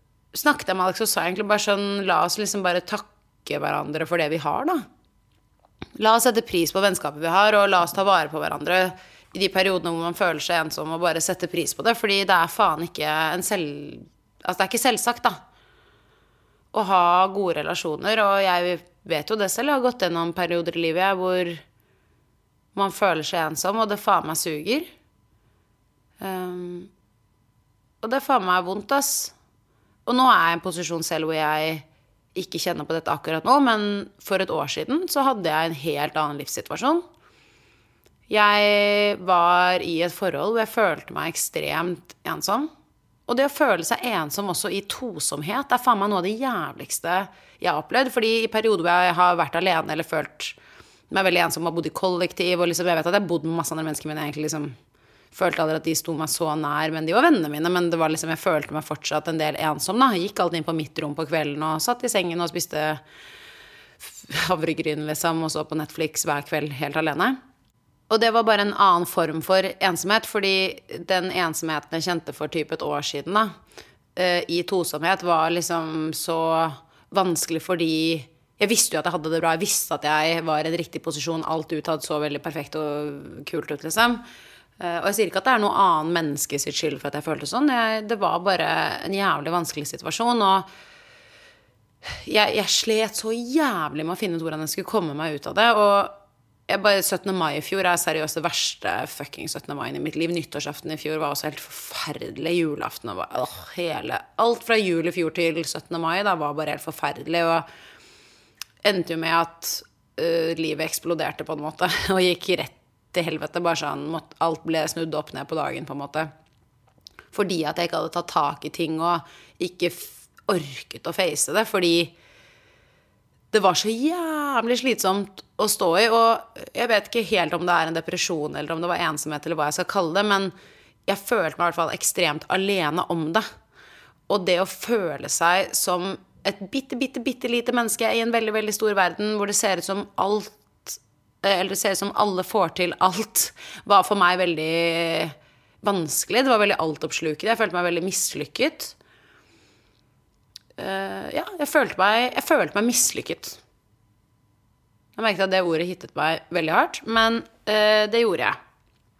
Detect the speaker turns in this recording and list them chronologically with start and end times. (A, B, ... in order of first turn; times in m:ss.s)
0:00.3-0:04.8 A
0:06.0-0:15.4 A
0:16.7-0:21.6 A
0:22.8-0:24.9 A
0:26.2-0:26.9 A
0:28.0-0:29.3 A
0:30.1-0:37.0 A
0:38.3-0:42.7 A
0:43.3-0:50.6 A
0:51.1-0:54.8 A
0:55.3-1:03.0 A
1:04.0-1:07.4 A
1:08.1-1:13.5 A
1:14.2-1:24.2 A
1:24.8-1:30.7 A
1:32.2-1:36.2 A
1:36.7-1:47.6 A
1:48.8-1:56.3 A
1:57.3-2:02.1 A
2:03.5-2:10.5 A
2:11.1-2:13.5 A
2:14.3-2:29.0 A
2:30.8-2:33.6 A
2:35.2-2:38.6 A